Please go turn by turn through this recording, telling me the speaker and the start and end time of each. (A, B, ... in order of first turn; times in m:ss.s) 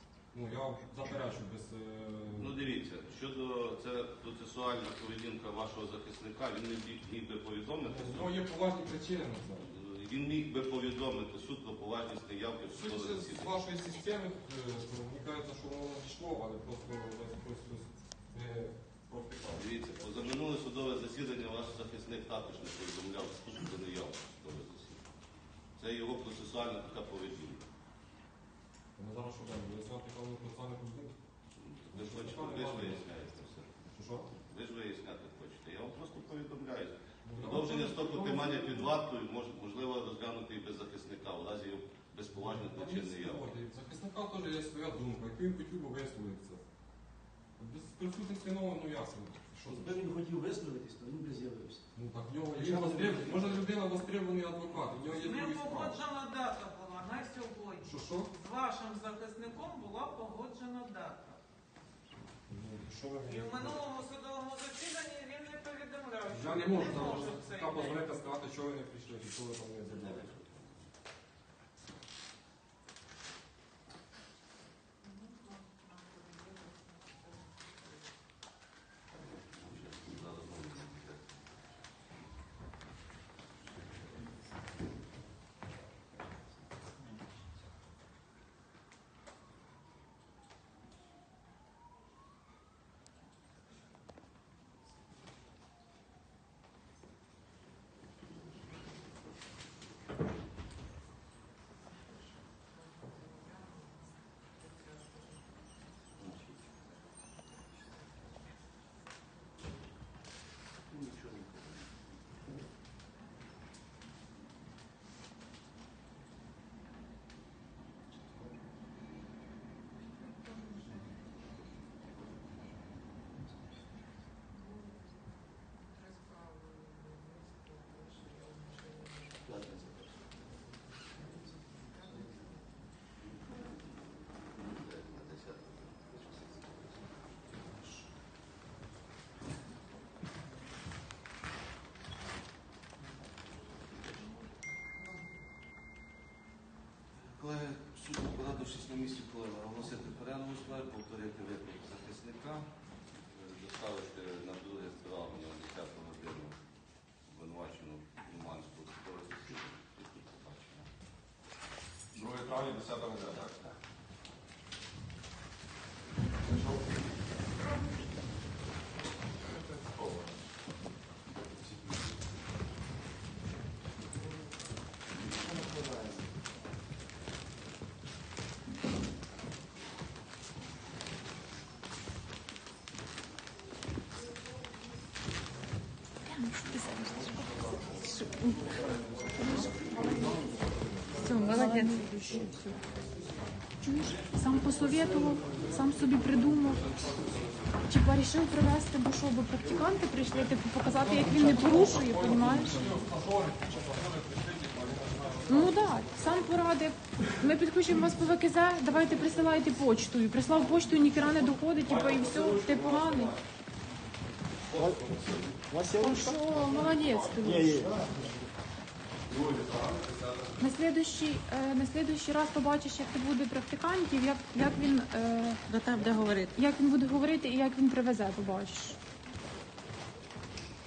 0:00.3-0:02.6 A
0:02.4-0:08.4 B
0:07.8-0:09.7 A
0:09.6-0:13.5 B
0:12.7-0:19.7 A
0:19.5-0:25.0 B
0:25.8-0:27.7 B
0:29.0-0:31.2 A
0:31.6-0:33.7 B
0:31.9-0:33.0 A
0:33.9-0:34.3 A
0:34.4-0:43.5 B
0:37.2-0:38.9 A
0:42.4-0:46.6 A
0:47.6-0:50.0 A
0:49.7-0:51.8 C
0:52.0-0:56.0 A
0:52.5-0:53.6 C
0:55.1-1:01.4 D
0:57.8-0:58.3 A
1:02.5-1:03.8 A
1:03.3-1:08.0 D
1:06.3-1:10.3 A
1:09.9-1:10.9 B
1:19.4-1:21.4 B
1:50.9-1:51.9 B
2:14.5-2:17.0 B
2:23.8-2:24.4 B
2:27.2-2:32.7 B
2:33.3-2:36.6 B
2:37.3-2:40.9 B
2:42.1-2:43.7 E
2:49.8-2:50.3 E
2:55.5-2:56.2 C
3:06.2-3:10.6 F
3:09.3-3:11.4 A
3:11.2-3:12.8 F
3:11.2-3:12.2 D
3:13.8-3:17.2 F
3:17.1-3:17.4 A
3:17.9-3:23.0 F
3:20.8-3:26.3 A
3:25.5-3:33.3 F
3:31.8-3:33.4 E
3:34.7-3:35.8 E
3:34.7-3:35.0 C
3:35.7-3:36.5 C
3:35.9-3:37.9 F
3:36.4-3:38.3 E
3:37.4-3:38.1 C
3:39.3-3:40.6 E
3:40.6-3:49.0 F
3:45.7-3:46.6 D